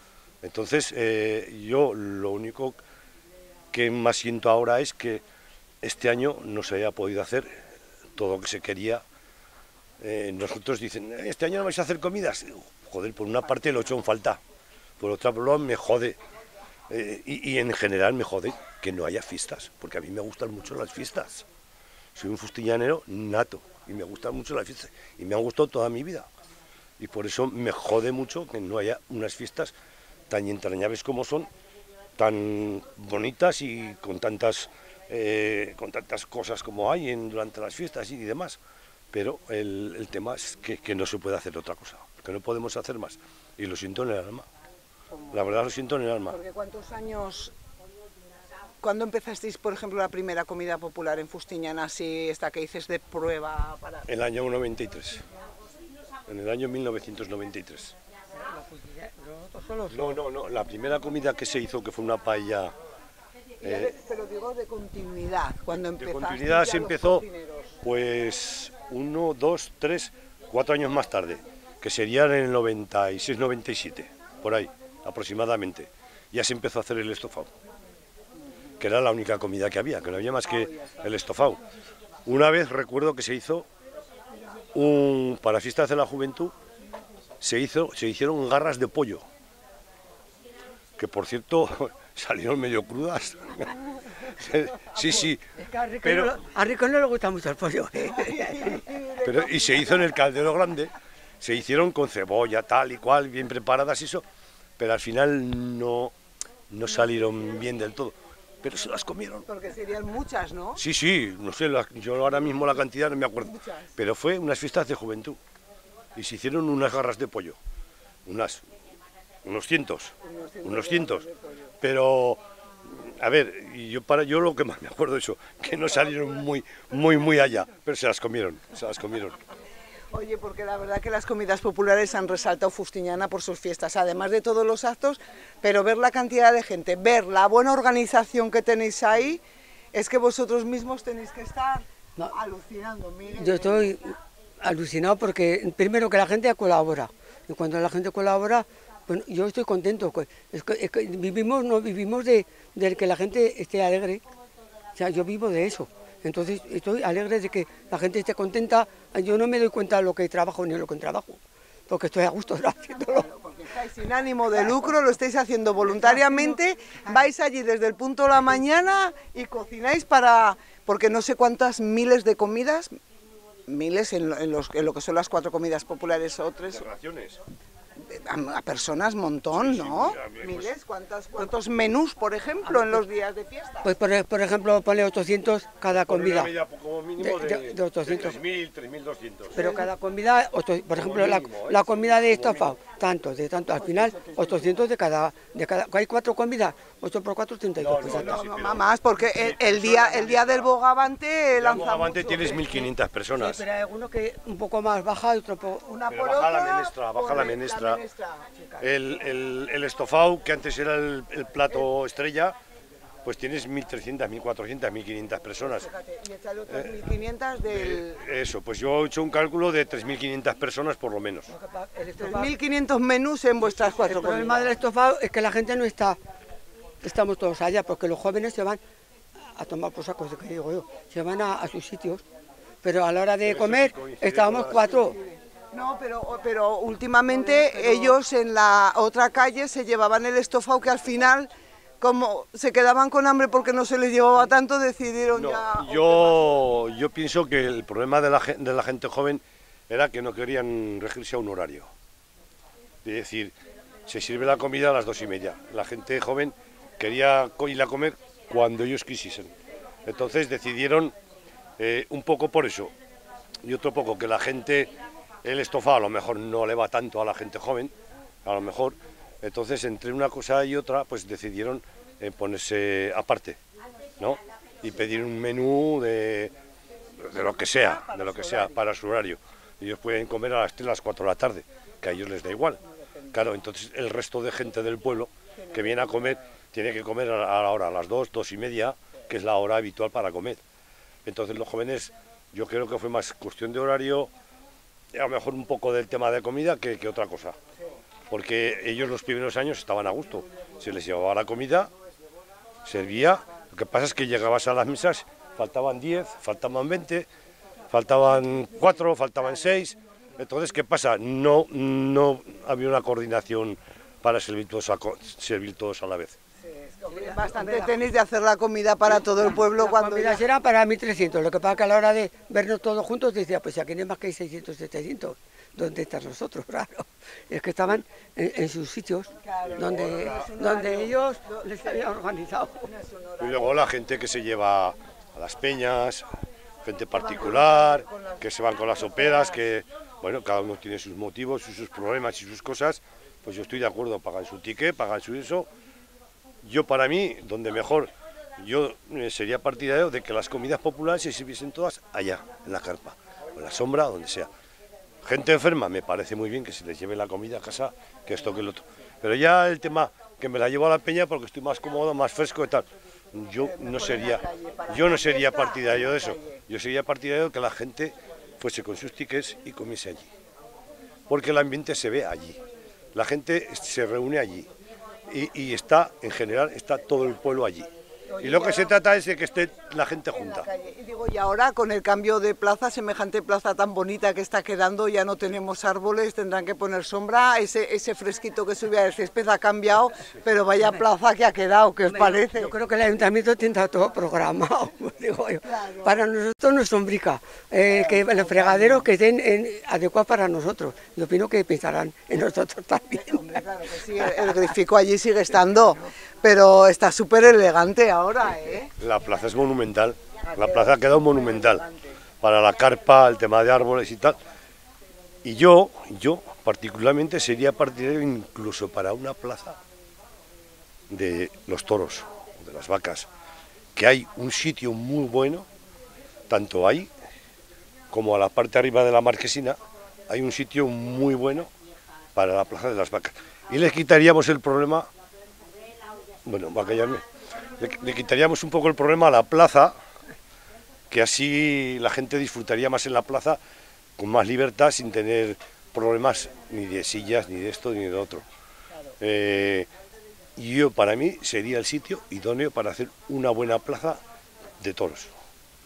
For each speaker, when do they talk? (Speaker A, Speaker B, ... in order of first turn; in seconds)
Speaker A: 0.4-2.8, 3.7-5.2, 5.8-7.6, 8.2-9.0, 10.0-14.4, 15.0-16.2, 16.9-21.4, 22.1-26.3, 27.0-29.7, 30.3-31.5, 32.2-38.6, 39.1-44.5, 45.3-46.4, 54.0-55.2, 56.3-57.9, 59.9-62.7, 63.6-63.9, 66.0-67.2, 67.8-77.5, 78.8-81.6, 82.2-83.7, 84.7-86.5, 87.4-89.2, 91.0-93.7, 94.3-95.4, 96.0-96.4, 99.2-104.2, 104.8-106.1, 106.7-109.5, 110.8-115.4, 116.1-117.6, 118.2-118.6, 119.4-121.2, 121.8-129.4, 176.7-177.4, 179.5-180.7, 185.9-189.6, 190.9-192.8, 197.8-200.7, 201.5-203.6, 206.1-208.0, 208.8-212.6, 213.2-215.9, 217.7-221.5, 233.4-235.2, 245.3-251.9, 253.0-253.5, 254.1-259.5, 260.0-261.1, 261.8-262.9, 263.6-264.9, 265.4-273.6, 274.2-276.5, 277.2-282.8, 283.3-290.6, 291.2-294.3, 295.1-297.6, 298.3-301.9, 302.8-307.3, 307.9-316.4, 329.7-330.4, 333.4-336.2, 336.8-345.7, 346.6-354.5, 355.2-370.3, 371.3-372.6, 373.1-374.7, 375.3-380.7, 409.0-411.8, 412.4-414.4, 415.4-419.8, 421.1-423.3, 423.9-425.7, 426.5-427.1, 428.1-431.7, 432.3-435.1, 436.4-437.2, 437.8-439.9, 441.1-443.6, 444.2-448.4, 449.2-449.9, 450.6-454.2, 454.8-455.3
Speaker B: 45.2-45.4, 46.3-47.5, 48.8-54.1, 63.6-67.8, 80.7-81.0, 98.1-100.1, 109.5-110.8, 113.4-113.9, 120.2-121.7, 130.1-139.4, 139.9-144.0, 163.1-172.9, 173.7-176.8, 178.1-183.9, 189.6-189.9, 193.8-194.8, 198.1-202.9, 205.9-208.9, 215.6-218.2, 222.2-224.7, 235.7-241.5, 242.0-246.4, 277.3-278.8, 285.6-286.4, 316.7-320.4, 329.4-332.0, 332.8-333.6, 337.1-339.5, 363.6-366.6, 378.3-379.0, 380.3-392.7, 395.6-396.2, 397.9-399.0, 403.1-408.9, 410.4-412.2
Speaker C: 58.4-60.2, 95.6-98.8, 143.4-144.0, 144.6-154.2, 154.9-163.3, 182.7-183.0, 183.8-186.5, 187.2-188.4, 189.5-198.4, 203.3-205.9, 221.5-222.5, 223.9-226.2, 227.0-228.8, 229.5-232.2, 232.8-235.2, 237.3-238.1, 317.3-317.9, 319.5-332.9, 392.1-403.6